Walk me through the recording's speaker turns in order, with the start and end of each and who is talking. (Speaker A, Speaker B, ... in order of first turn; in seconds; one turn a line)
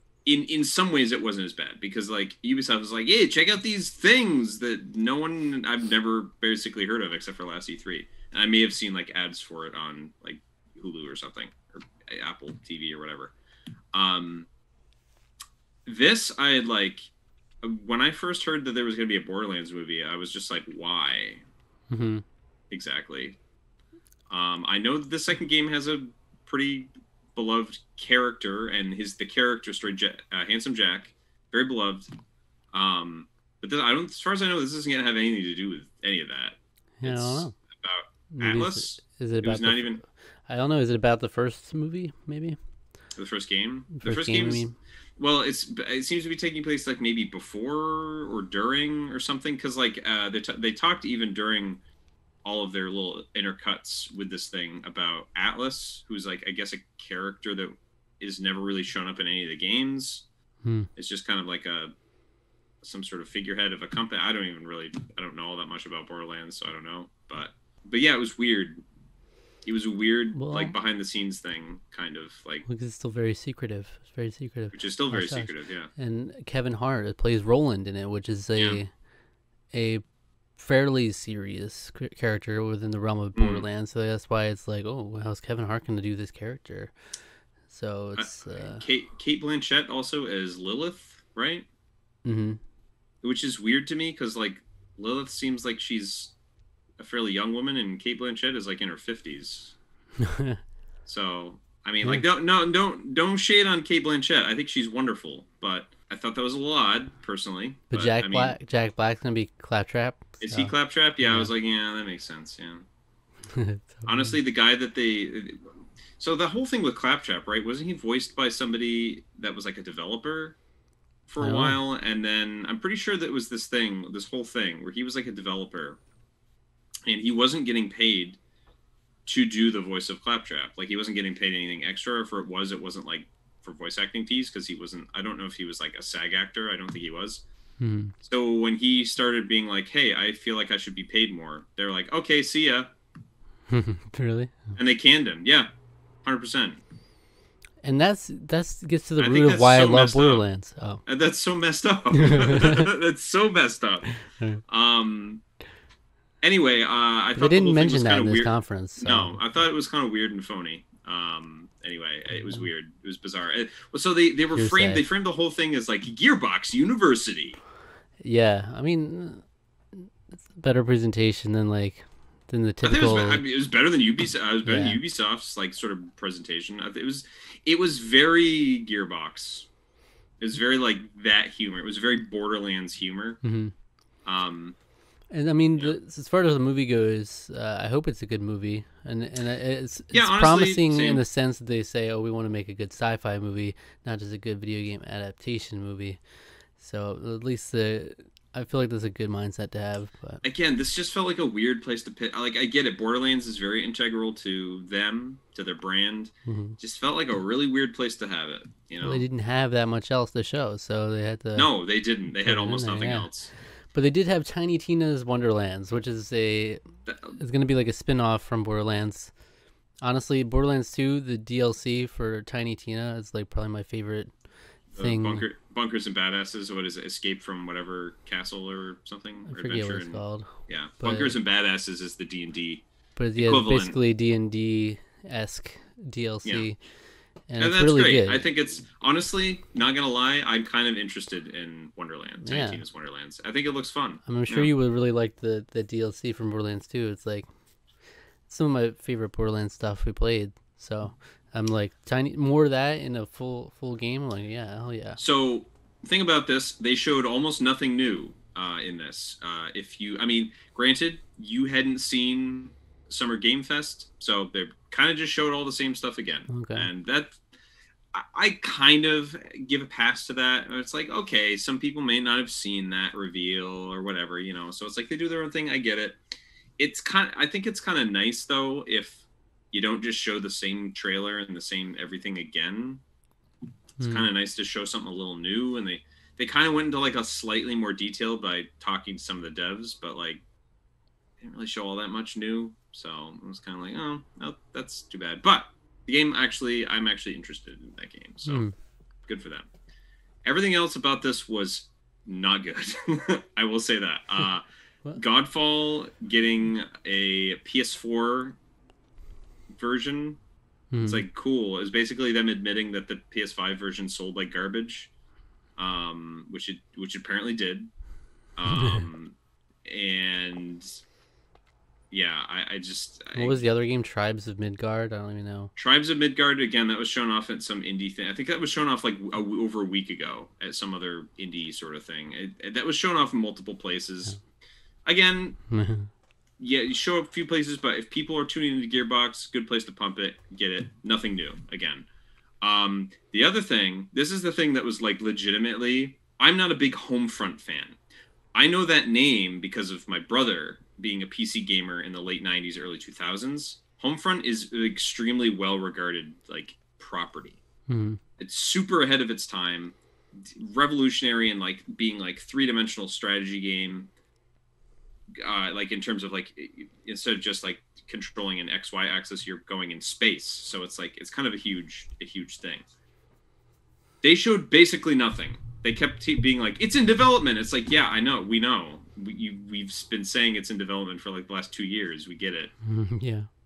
Speaker A: 0.2-13.3
Speaker A: 13.9-14.5
Speaker A: 15.8-17.1
Speaker A: 17.6-21.4
Speaker B: 21.9-22.2
Speaker A: 22.7-23.4
Speaker A: 24.3-32.1
Speaker A: 32.7-40.0
Speaker B: 37.0-37.5
Speaker B: 38.3-42.6
Speaker A: 43.1-44.6
Speaker B: 43.9-44.7
Speaker A: 45.2-51.8
Speaker A: 52.4-60.2
Speaker B: 60.6-60.9
Speaker A: 61.0-61.9
Speaker A: 62.8-68.8
Speaker A: 69.6-72.6
Speaker B: 70.3-70.8
Speaker B: 72.7-78.9
Speaker A: 74.7-75.9
Speaker A: 78.5-78.8
Speaker B: 79.7-80.0
Speaker B: 80.6-86.9
Speaker A: 83.3-83.7
Speaker B: 87.7-88.8
Speaker A: 88.2-91.7
Speaker B: 92.2-92.6
Speaker A: 93.2-96.3
Speaker A: 97.0-99.7
Speaker B: 100.2-100.6
Speaker A: 101.0-108.6
Speaker B: 107.9-111.5
Speaker A: 110.4-112.8
Speaker B: 113.5-114.3
Speaker A: 114.0-115.6
Speaker A: 116.2-120.6
Speaker A: 121.3-126.0
Speaker B: 121.4-121.8
Speaker A: 127.1-128.4
Speaker A: 129.2-137.4
Speaker B: 137.8-138.1
Speaker A: 138.2-142.9
Speaker B: 143.7-144.7
Speaker A: 144.8-145.7
Speaker A: 146.2-146.8
Speaker B: 147.8-151.0
Speaker A: 149.2-150.4
Speaker A: 151.1-154.1
Speaker B: 152.2-152.8
Speaker A: 154.7-155.4
Speaker A: 156.4-167.6
Speaker B: 157.3-159.4
Speaker B: 164.5-165.1
Speaker B: 168.2-173.4
Speaker A: 172.8-179.7
Speaker B: 174.6-175.0
Speaker A: 180.4-183.4
Speaker B: 183.4-183.7
Speaker A: 184.2-184.8
Speaker B: 185.3-196.2
Speaker A: 190.1-191.2
Speaker B: 196.8-200.4
Speaker A: 200.4-209.2
Speaker B: 206.4-206.8
Speaker B: 209.0-211.7
Speaker A: 211.5-213.5
Speaker B: 212.4-213.3
Speaker B: 213.9-219.3
Speaker A: 217.1-217.4
Speaker B: 220.0-224.3
Speaker B: 224.9-225.4
Speaker A: 224.9-232.8
Speaker B: 229.5-231.4
Speaker B: 233.2-236.8
Speaker A: 233.3-234.0
Speaker B: 237.5-238.4
Speaker A: 237.6-244.7
Speaker B: 242.4-242.8
Speaker B: 244.2-247.5
Speaker B: 248.5-255.2
Speaker A: 255.2-267.4
Speaker B: 266.5-266.9
Speaker A: 268.1-276.2
Speaker A: 276.8-283.0
Speaker B: 284.0-284.3
Speaker A: 284.0-290.4
Speaker A: 291.4-298.6
Speaker B: 298.4-298.7
Speaker A: 299.3-299.7
Speaker A: 300.4-308.6
Speaker A: 309.8-310.4
Speaker B: 310.9-311.2
Speaker A: 311.0-315.1
Speaker A: 315.8-317.9
Speaker A: 318.6-320.9
Speaker B: 318.8-319.0
Speaker A: 322.1-323.6
Speaker B: 323.3-325.7
Speaker A: 325.8-334.4
Speaker A: 335.0-335.6
Speaker B: 335.7-336.1
Speaker A: 336.6-342.1
Speaker A: 342.6-348.0
Speaker A: 348.5-357.6
Speaker B: 357.9-358.2
Speaker A: 358.4-364.1
Speaker A: 365.4-372.8
Speaker A: 374.2-382.7
Speaker B: 382.8-383.5